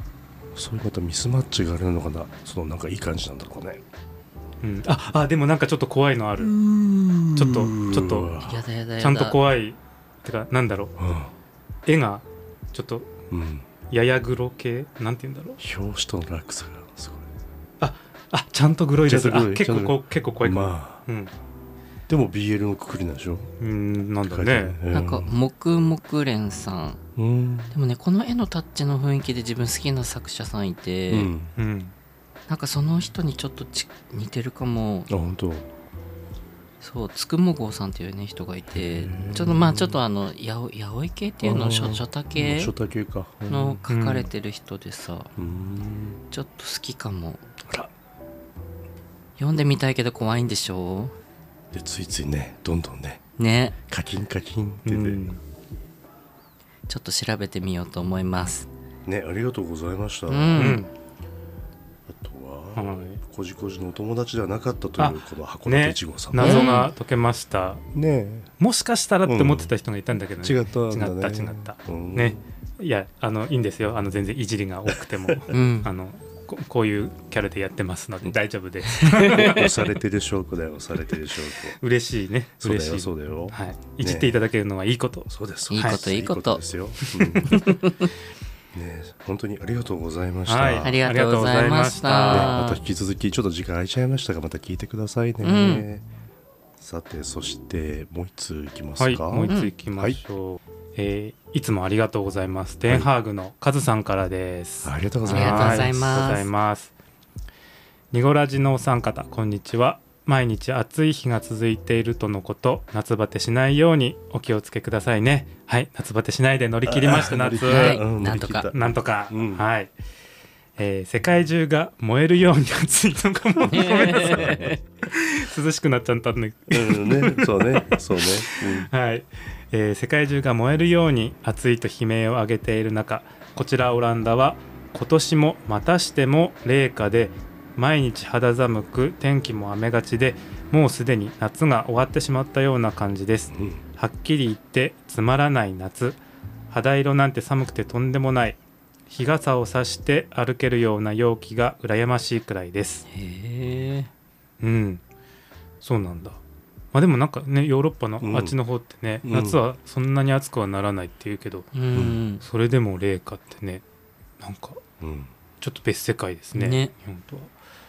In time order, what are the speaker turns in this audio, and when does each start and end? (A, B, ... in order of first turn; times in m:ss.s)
0:00.5-0:03.8 A
0:04.6-0:06.6 B
0:06.4-0:08.6 A
0:07.3-0:08.4 B
0:08.4-0:09.4 C
0:09.0-0:11.0 B
0:11.0-0:11.3 A
0:11.9-0:13.2 B
0:13.3-0:13.7 A
0:13.9-0:15.6 B
0:15.6-0:17.3 A
0:17.8-0:21.3 B
0:19.0-0:21.0 A
0:22.1-0:23.5 A
0:23.6-0:24.8 B
0:24.3-0:25.3 A
0:24.9-0:27.0 C
0:27.2-0:27.7 A
0:27.7-0:31.3 C
0:31.1-0:31.5 A
0:31.6-0:31.9 B
0:32.5-0:35.1 C
0:35.1-0:35.7 A
0:36.8-0:42.7 C
0:38.8-0:40.0 A
0:41.4-0:43.8 A
0:43.5-0:45.3 C
0:43.9-0:44.3 B
0:45.4-0:46.2 A
0:46.3-0:47.4 C
0:49.4-0:51.2 C
0:51.7-0:53.2 A
0:53.4-0:53.8 C
0:53.9-0:55.3 A
0:54.9-0:55.4 B
0:56.9-0:58.7 C
0:59.1-1:00.8 A
1:00.3-1:00.8 C
1:00.6-1:00.9 B
1:02.1-1:06.7 A
1:02.8-1:03.2 B
1:05.0-1:07.8 B
1:06.4-1:06.9 C
1:07.9-1:08.5 A
1:08.6-1:19.9 B
1:09.3-1:09.7 A
1:10.4-1:12.4 A
1:14.9-1:15.4 A
1:15.5-1:15.9 C
1:19.0-1:19.7 C
1:19.3-1:21.8 A
1:21.8-1:26.0 B
1:22.6-1:24.4 A
1:25.3-1:27.7 A
1:25.7-1:26.6 C
1:27.0-1:27.6 B
1:27.4-1:28.1 C
1:28.7-1:31.0 A
1:30.5-1:32.6 B
1:30.8-1:32.8 C
1:32.3-1:36.1 A
1:35.4-1:35.9 C
1:36.8-1:40.2 A
1:39.0-1:46.9 B
1:44.8-1:46.1 A
1:45.3-1:46.5 C
1:48.1-1:59.9 B
1:56.8-1:59.6 A
1:57.6-1:58.7 C
2:00.8-2:26.2 B
2:03.7-2:04.8 C
2:04.1-2:04.7 A
2:06.7-2:08.9 A
2:23.5-2:23.8 A
2:26.7-2:28.6 B
2:29.1-2:33.0 B
2:33.1-2:34.1 C
2:34.6-2:35.0 B
2:35.8-2:36.4 B
2:36.9-2:41.7 B
2:38.2-2:38.6 A
2:39.2-2:39.6 A
2:41.7-2:42.4 C
2:41.9-2:42.2 A
2:42.4-2:43.8 B
2:44.4-2:44.8 B
2:45.0-2:45.3 A
2:45.6-2:47.5 B
2:46.5-2:46.9 C